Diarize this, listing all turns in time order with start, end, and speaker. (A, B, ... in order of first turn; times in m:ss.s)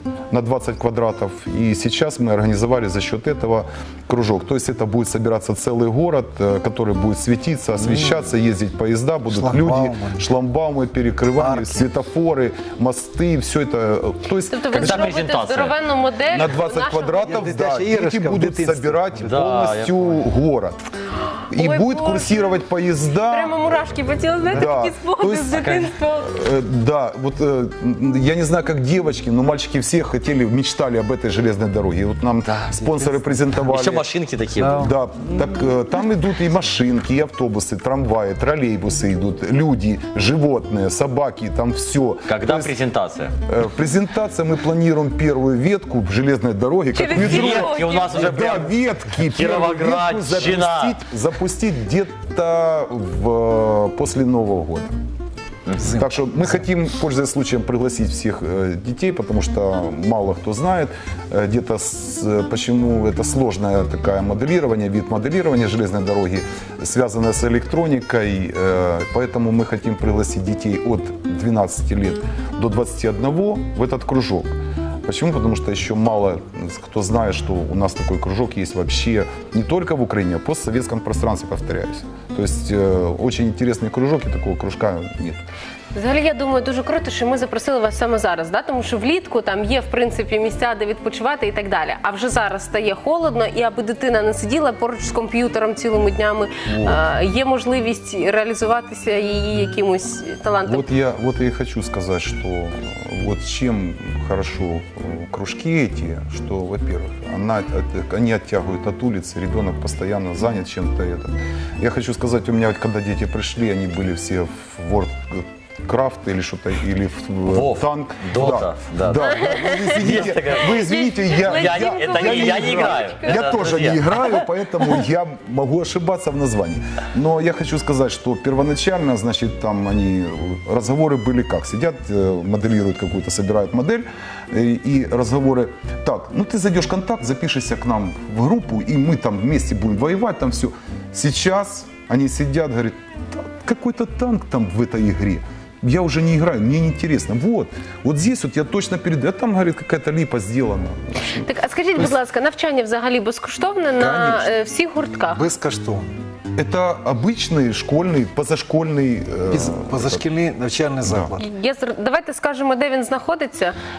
0:00.3-0:15.0 A
0:07.8-0:08.2 B
0:09.3-0:10.2 C
0:11.4-0:11.9 C
0:14.5-0:17.4 D
0:14.7-0:15.8 B
0:16.3-0:20.8 A
0:17.2-0:19.5 C
0:19.2-0:20.2 B
0:21.5-0:22.6 D
0:21.5-0:23.8 A
0:23.3-0:26.3 D
0:24.5-0:34.1 A
0:25.5-0:25.9 B
0:32.4-0:32.7 B
0:32.8-0:33.4 C
0:33.6-0:34.9 B
0:34.6-0:34.9 C
0:34.6-0:42.7 A
0:42.3-0:43.3 B
0:43.5-0:55.0 A
0:46.9-0:48.4 D
0:47.1-0:51.0 B
0:55.7-0:56.0 B
0:55.8-0:56.1 C
0:56.0-1:25.5 A
1:26.0-1:40.9 D
1:36.6-1:37.0 A
1:40.6-2:32.1 A
1:57.5-2:04.5 B
2:00.9-2:03.5 D
2:31.4-2:35.4 D
2:34.0-2:34.5 A
2:35.3-2:36.1 C
2:36.6-2:40.2 A
2:39.5-2:41.4 C
2:41.0-2:41.3 A
2:41.4-2:43.8 D